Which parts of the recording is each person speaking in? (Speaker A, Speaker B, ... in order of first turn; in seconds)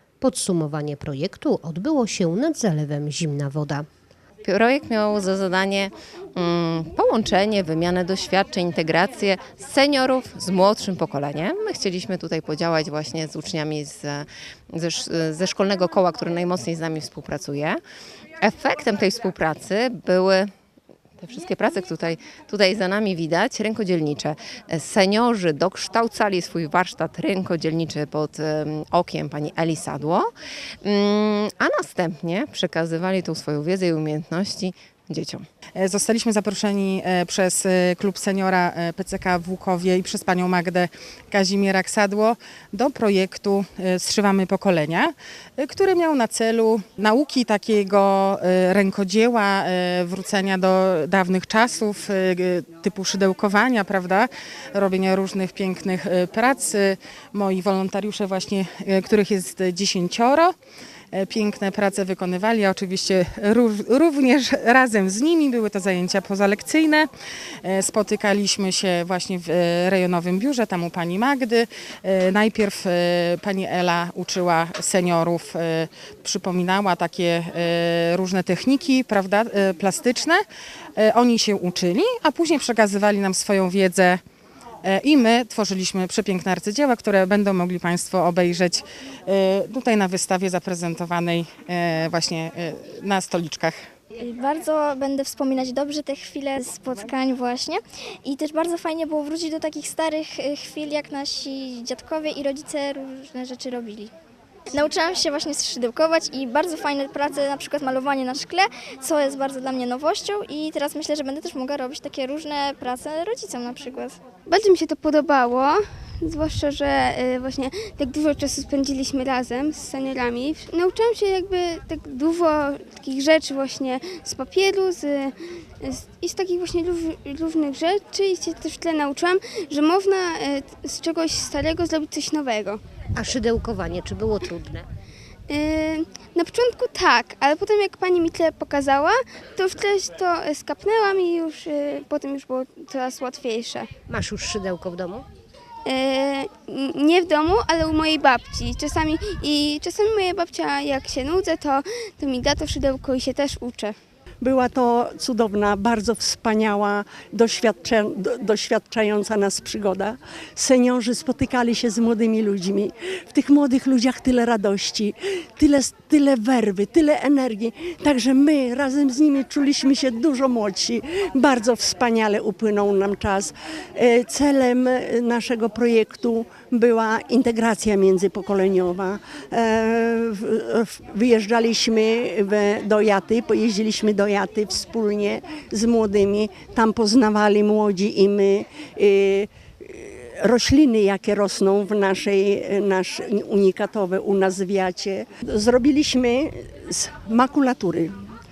Speaker A: 0.2-3.9, 133.2-134.8, 144.1-145.2
Speaker B: 4.4-17.8, 18.4-20.5, 21.2-30.3, 30.8-35.4
Speaker C: 35.8-60.5, 61.1-67.1, 67.6-80.4, 81.0-84.2, 84.8-93.8
Speaker D: 94.2-104.1, 104.7-114.2
Speaker E: 114.5-132.8, 135.5-143.9, 145.8-153.9
Speaker F: 154.4-198.1